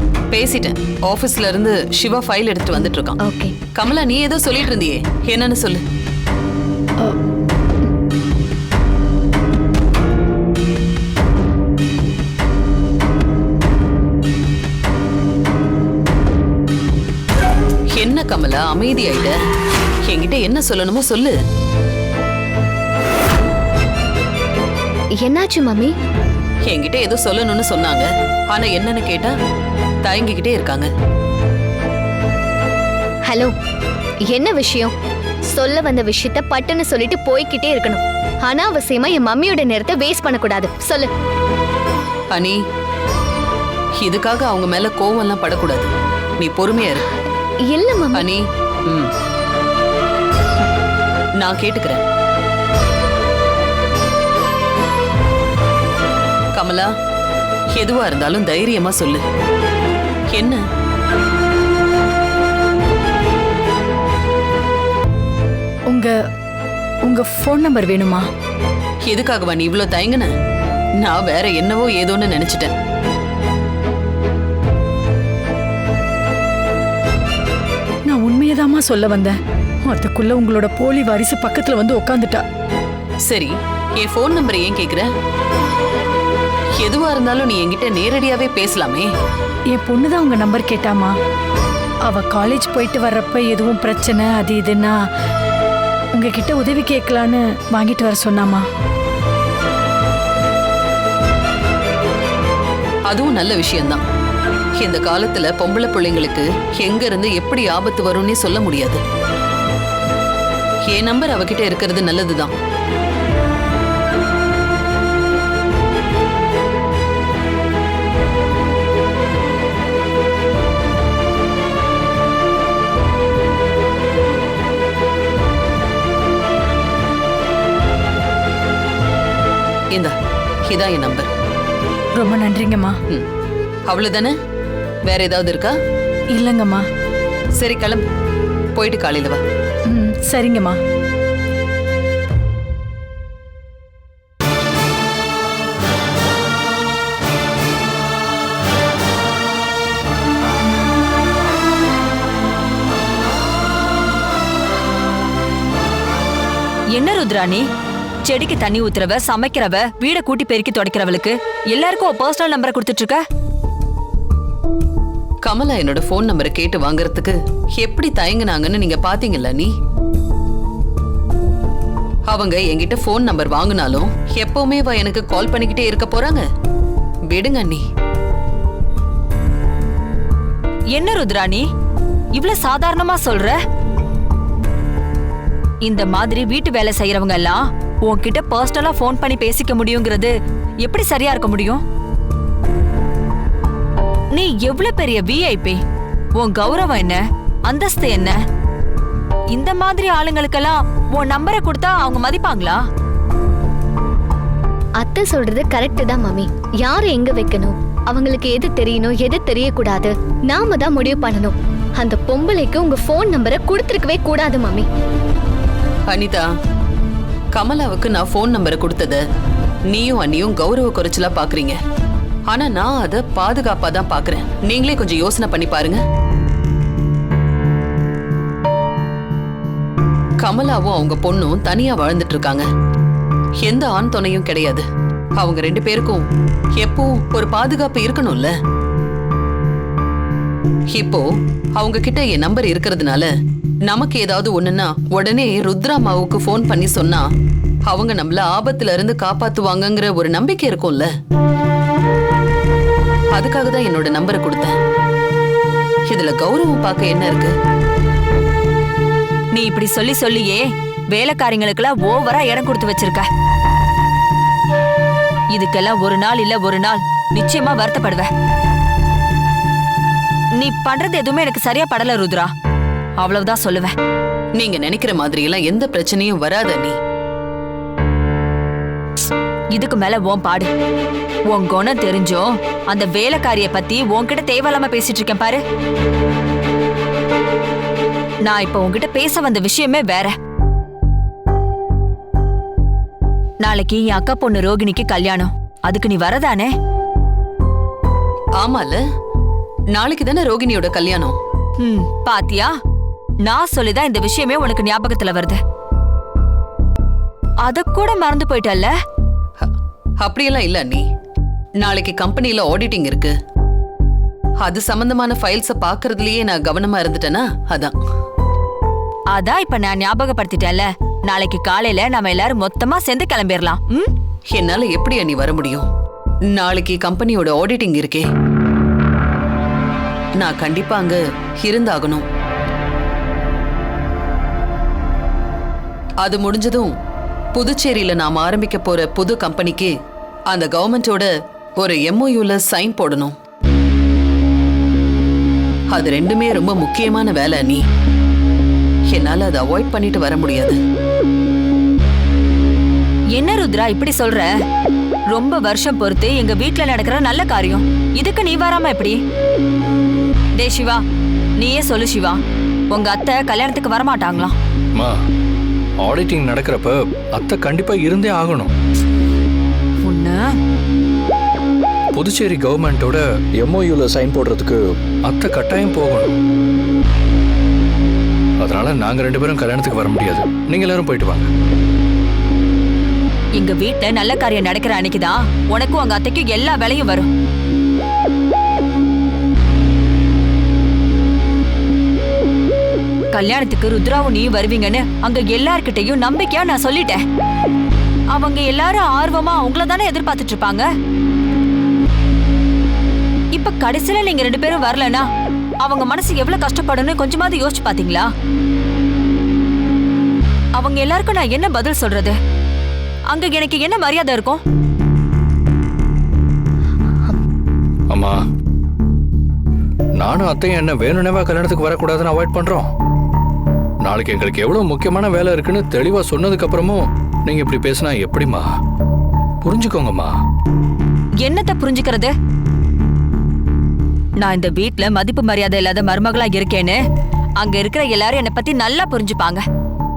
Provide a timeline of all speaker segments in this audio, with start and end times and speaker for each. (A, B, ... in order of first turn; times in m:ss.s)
0:00.3-0:03.2 A
0:03.2-0:03.5 B
0:03.8-0:05.8 A
0:17.9-0:19.4 A
0:20.1-0:21.4 A
0:25.2-0:25.9 B
0:26.7-0:29.4 A
0:30.0-0:30.9 A
0:33.3-0:33.5 B
0:34.3-0:34.9 B
0:35.5-0:41.1 B
0:42.3-0:42.6 A
0:44.0-0:47.0 A
0:47.7-0:48.3 B
0:48.2-0:49.1 A
0:51.4-0:52.0 A
0:56.6-0:56.9 A
0:57.8-0:59.2 A
1:00.3-1:00.6 A
1:05.9-1:06.1 C
1:07.1-1:08.3 C
1:09.1-1:10.3 A
1:11.0-1:12.7 A
1:18.1-1:19.4 C
1:19.9-1:22.4 C
1:23.3-1:25.1 A
1:26.8-1:29.1 A
1:29.7-1:31.1 C
1:32.1-1:35.0 C
1:36.2-1:38.6 C
1:43.1-1:44.0 A
1:44.8-1:49.0 A
1:50.9-1:52.5 A
2:10.7-2:11.3 A
2:12.2-2:13.0 C
2:13.9-2:14.4 A
2:15.1-2:15.8 A
2:16.3-2:16.8 C
2:17.6-2:18.0 A
2:18.8-2:19.4 A
2:19.9-2:20.8 C
2:36.9-2:37.7 D
2:38.3-2:43.2 D
2:45.4-2:49.7 A
2:52.3-2:56.5 A
2:57.3-2:57.8 A
3:00.9-3:01.7 D
3:02.4-3:03.6 D
3:05.8-3:11.8 D
3:14.3-3:15.8 D
3:16.4-3:18.4 D
3:19.5-3:22.8 D
3:25.0-3:34.9 B
3:36.1-3:36.5 A
3:37.6-3:39.2 A
3:39.9-3:41.8 A
3:42.5-3:46.0 A
3:50.4-3:52.7 A
3:53.6-3:54.9 A
3:55.4-3:56.3 A
3:56.8-3:58.5 A
4:00.9-4:03.3 A
4:03.9-4:07.3 A
4:07.9-4:11.1 A
4:13.3-4:14.8 A
4:16.1-4:17.5 A
4:19.6-4:23.3 D
4:25.5-4:28.3 D
4:30.6-4:32.5 D
4:33.2-4:33.9 D
4:34.6-4:37.0 A
4:39.8-4:40.7 D
4:41.5-4:45.6 D
4:48.5-4:50.4 D
4:53.6-4:56.7 D
4:58.6-4:59.0 A
4:59.9-5:01.4 A
5:01.8-5:02.7 D
5:03.4-5:05.6 D
5:07.6-5:08.9 D
5:09.6-5:11.0 A
5:11.8-5:13.3 A
5:14.6-5:18.0 A
5:19.3-5:24.1 D
5:24.5-5:25.9 A
5:26.5-5:28.3 A
5:30.4-5:32.3 A
5:36.2-5:36.9 A
5:37.6-5:39.9 A
5:40.5-5:43.4 A
5:45.9-5:47.8 A
5:49.1-5:50.8 A
5:53.3-5:54.6 D
5:55.3-5:59.2 D
6:00.6-6:01.0 D
6:01.6-6:02.4 D
6:02.9-6:04.6 D
6:05.0-6:05.2 E
6:06.0-6:08.7 E
6:10.0-6:10.6 D
6:12.1-6:16.4 E
6:18.6-6:21.5 E
6:23.6-6:27.3 D
6:33.3-6:37.2 D
6:38.3-6:40.9 D
6:43.5-6:45.3 D
6:45.8-6:48.3 D
6:50.8-6:52.4 D
6:53.3-6:54.6 D
6:58.1-6:58.4 E
7:00.2-7:02.9 E
7:04.0-7:08.8 E
7:09.6-7:10.4 E
7:11.4-7:12.3 D
7:14.4-7:17.0 D
7:17.6-7:19.6 D